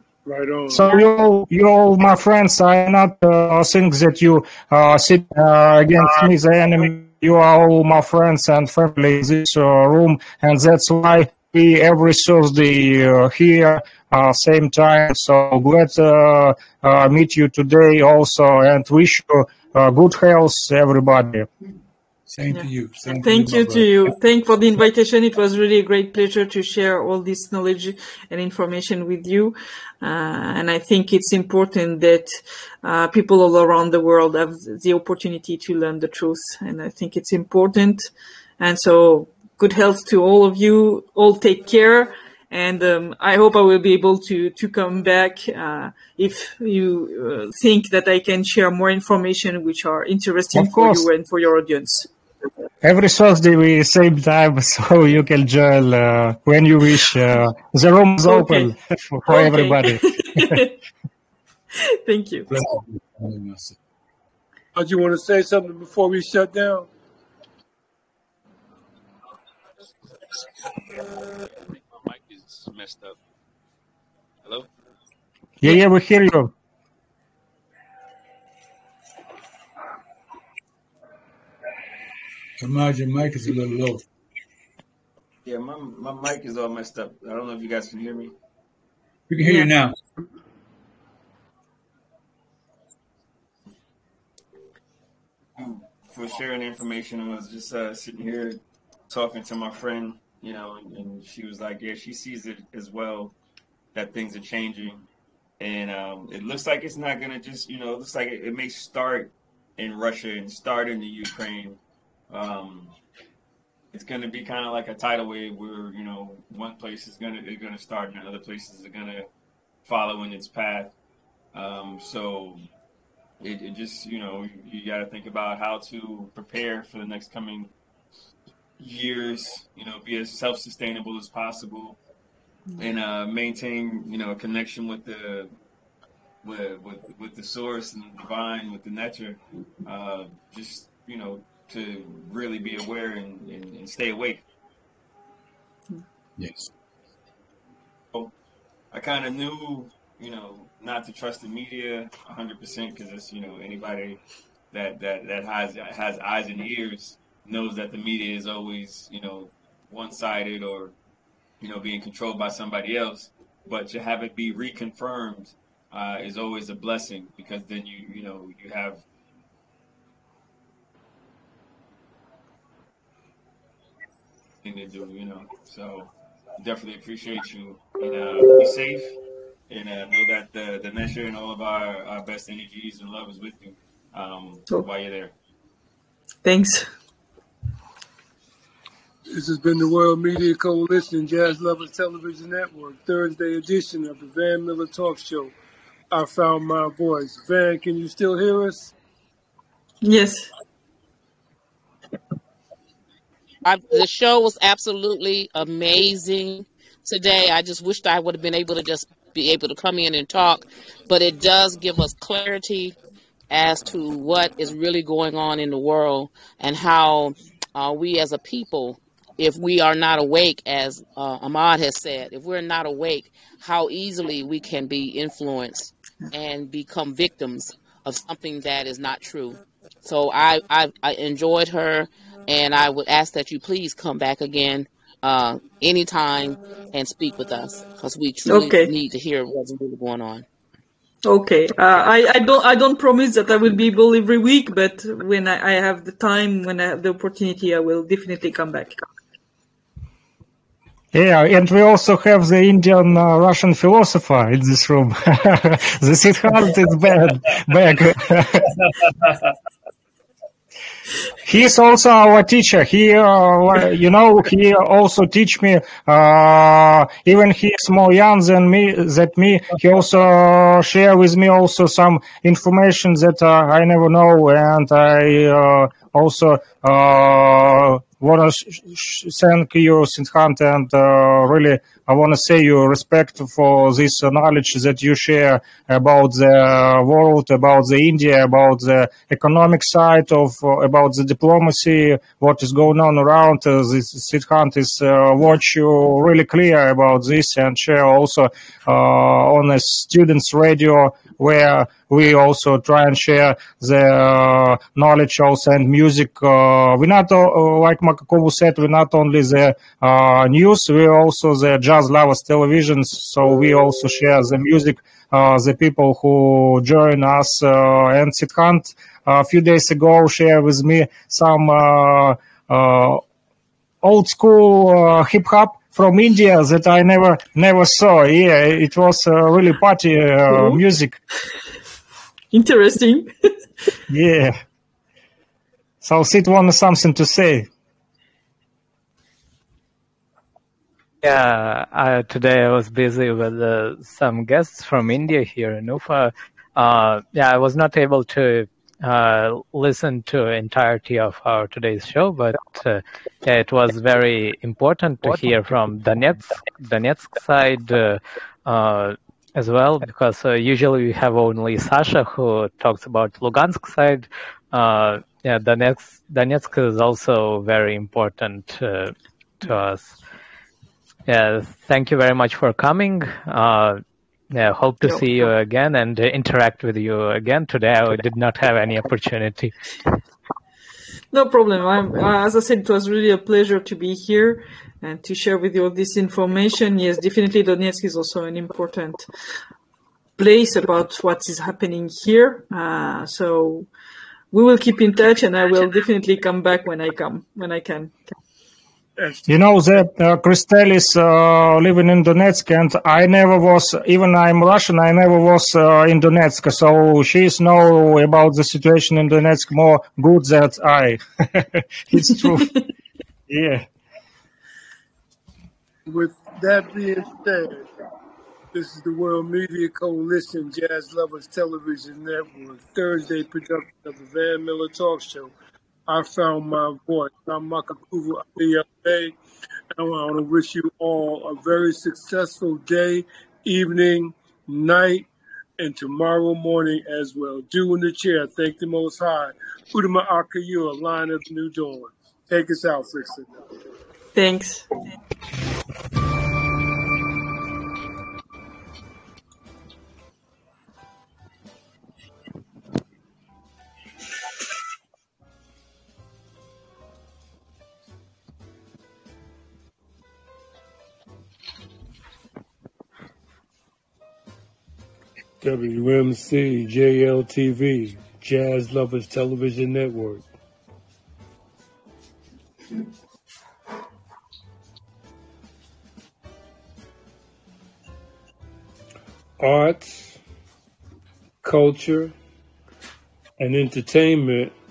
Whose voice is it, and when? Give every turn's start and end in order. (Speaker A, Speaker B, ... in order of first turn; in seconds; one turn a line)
Speaker A: 0.2-0.9
Speaker B: 0.7-21.5
Speaker C: 22.3-24.1
Speaker D: 22.5-38.1
Speaker D: 38.6-52.1
Speaker B: 50.5-51.1
Speaker B: 52.8-60.6
Speaker D: 58.3-58.7
Speaker D: 59.3-60.7
Speaker D: 62.0-62.5
Speaker C: 62.5-63.8
Speaker A: 64.8-66.9
Speaker E: 71.7-73.2
Speaker B: 75.6-76.5
Speaker C: 82.6-84.0
Speaker E: 85.5-88.3
Speaker C: 89.3-90.0
Speaker D: 89.4-89.7
Speaker E: 95.6-103.3
Speaker E: 103.9-105.0
Speaker E: 105.6-111.8
Speaker E: 112.3-112.9
Speaker E: 113.9-119.3
Speaker E: 119.8-120.9
Speaker E: 121.5-122.7
Speaker E: 123.4-127.7
Speaker E: 128.8-132.0
Speaker E: 132.8-135.5
Speaker E: 136.4-144.4
Speaker C: 146.4-146.7
Speaker E: 148.9-154.2
Speaker E: 154.7-160.9
Speaker E: 161.6-169.0
Speaker E: 174.6-179.2
Speaker E: 179.7-185.3
Speaker D: 186.4-186.9
Speaker A: 189.3-195.5
Speaker A: 196.1-198.9
Speaker D: 200.0-200.5
Speaker F: 203.6-213.0
Speaker F: 213.5-240.5
Speaker D: 238.5-238.9
Speaker D: 241.2-248.9
Speaker B: 251.1-258.8
Speaker B: 261.4-323.2
Speaker B: 324.0-331.2
Speaker D: 332.5-333.5
Speaker B: 334.1-334.6
Speaker B: 336.0-337.7
Speaker G: 341.2-370.2
Speaker G: 371.3-374.0
Speaker G: 374.5-379.7
Speaker D: 375.0-375.3
Speaker D: 381.3-389.3
Speaker D: 390.4-393.9
Speaker D: 394.5-398.3
Speaker A: 399.2-399.4
Speaker B: 399.5-412.8
Speaker B: 413.5-413.9
Speaker A: 416.1-417.9
Speaker A: 418.7-425.5
Speaker A: 426.1-429.4
Speaker A: 429.9-443.5
Speaker D: 444.4-445.0
Speaker A: 465.6-470.5
Speaker A: 479.6-480.4
Speaker A: 481.6-482.3
Speaker A: 483.6-484.7